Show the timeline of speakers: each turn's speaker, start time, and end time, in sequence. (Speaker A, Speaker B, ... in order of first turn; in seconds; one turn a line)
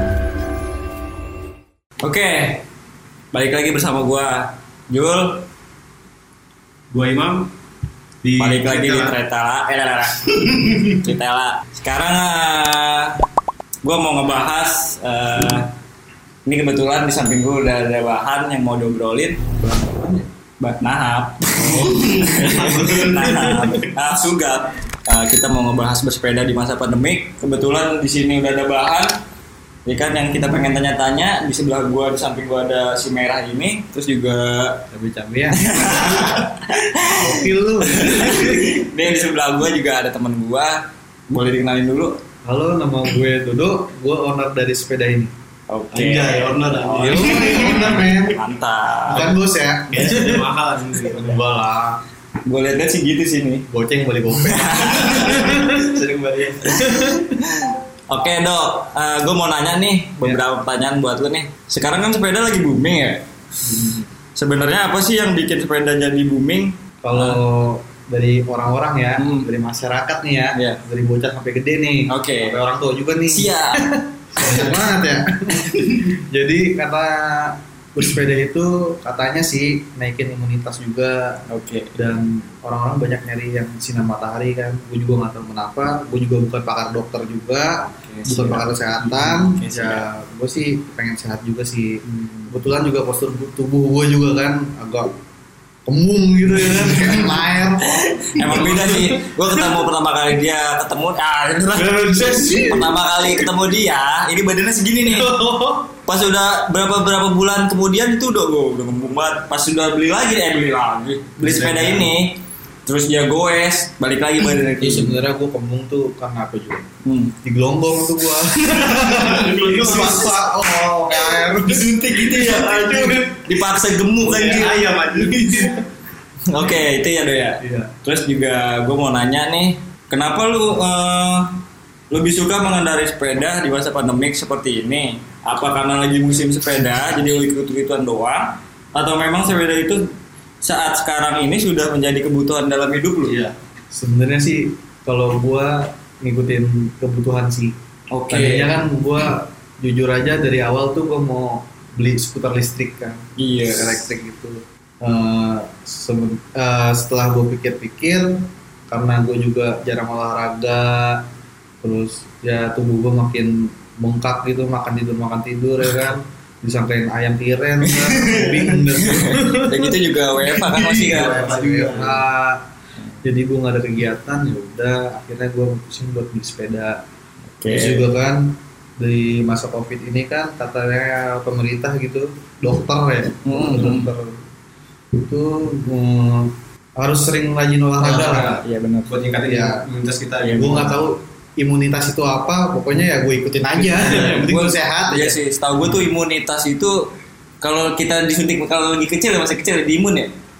Speaker A: 2.0-2.6
Speaker A: 3.3-5.5
Speaker B: 6.9-7.5
Speaker B: 8.2-9.1
Speaker A: 8.4-13.2
Speaker B: 10.4-11.0
Speaker A: 13.8-15.7
Speaker A: 16.4-19.4
Speaker C: 19.4-20.3
Speaker A: 20.6-29.2
Speaker C: 21.5-23.8
Speaker B: 22.0-23.1
Speaker A: 29.9-34.8
Speaker C: 34.9-36.5
Speaker A: 35.5-37.3
Speaker C: 37.0-38.7
Speaker A: 37.9-42.2
Speaker C: 42.4-45.3
Speaker A: 45.7-49.3
Speaker B: 45.9-48.0
Speaker C: 46.9-48.4
Speaker B: 49.1-51.4
Speaker C: 49.1-50.4
Speaker C: 51.1-52.0
Speaker A: 52.4-53.6
Speaker C: 53.7-55.8
Speaker A: 54.3-55.4
Speaker B: 54.9-56.8
Speaker C: 56.7-57.2
Speaker A: 56.8-67.4
Speaker C: 67.0-81.4
Speaker A: 69.2-69.5
Speaker A: 70.5-70.8
Speaker A: 72.1-72.6
Speaker A: 73.3-73.8
Speaker B: 74.4-74.7
Speaker A: 81.5-81.9
Speaker C: 81.9-95.1
Speaker A: 87.9-90.1
Speaker A: 92.1-92.5
Speaker C: 95.8-99.8
Speaker A: 96.6-105.3
Speaker C: 101.8-102.9
Speaker C: 105.1-105.9
Speaker A: 106.0-115.2
Speaker B: 111.4-112.1
Speaker C: 114.8-116.9
Speaker A: 117.0-117.3
Speaker C: 117.4-123.4
Speaker B: 118.8-120.5
Speaker A: 121.6-124.8
Speaker B: 124.2-125.8
Speaker C: 125.2-125.7
Speaker A: 126.5-131.6
Speaker C: 127.6-127.9
Speaker A: 132.1-140.1
Speaker A: 140.6-143.4
Speaker B: 143.2-143.5
Speaker C: 143.9-147.7
Speaker A: 148.1-148.8
Speaker C: 148.3-161.2
Speaker A: 153.4-154.1
Speaker C: 161.8-172.6
Speaker A: 167.9-171.4
Speaker B: 170.8-172.2
Speaker C: 173.2-177.0
Speaker A: 177.6-178.1
Speaker C: 177.7-184.4
Speaker A: 183.4-184.1
Speaker C: 185.1-188.6
Speaker B: 188.0-191.0
Speaker A: 188.2-189.2
Speaker C: 189.4-189.8
Speaker A: 190.4-190.9
Speaker C: 190.5-195.3
Speaker A: 193.8-200.3